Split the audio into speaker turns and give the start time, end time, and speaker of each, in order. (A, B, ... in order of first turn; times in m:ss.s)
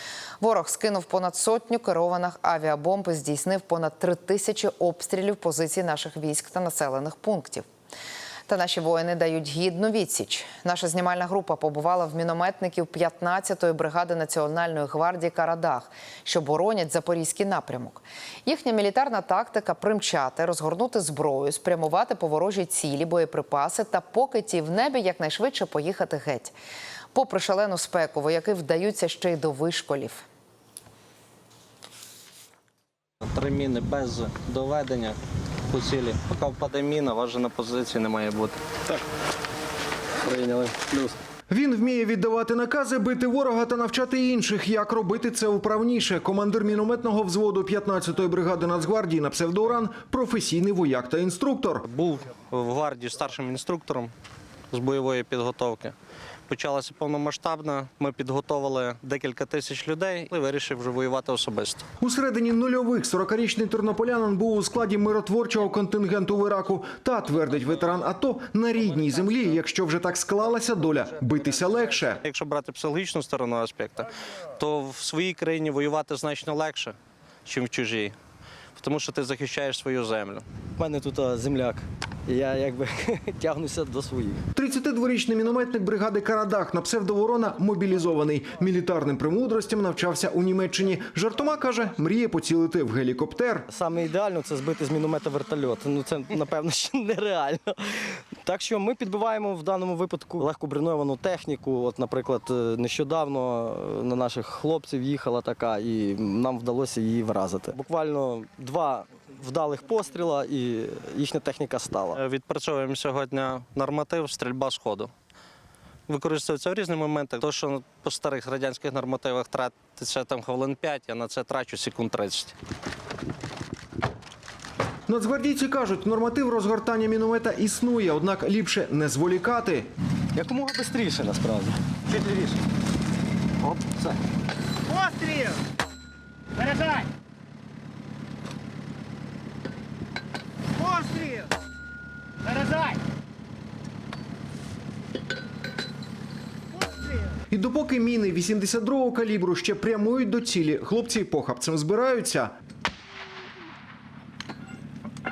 0:00.4-0:07.6 A
0:08.5-0:26.5 A
0:27.1-0:30.2 A
0:33.2-0:38.6 B
0:40.2-0:41.2 C
0:41.5-0:51.8 D
0:51.9-0:54.1 B
0:54.7-0:55.9 B
0:56.5-1:01.8 B
1:02.0-1:12.2 D
1:12.2-1:18.1 B
1:18.8-1:20.4 B
1:20.8-1:24.4 C
1:24.5-1:33.6 D
1:33.7-1:52.2 C
1:52.1-1:55.1 B
1:56.1-2:02.5 B
2:05.1-2:09.9 D
2:10.3-2:12.6 C
2:13.6-2:14.2 C
2:14.9-2:15.5 C
2:27.5-2:32.5 D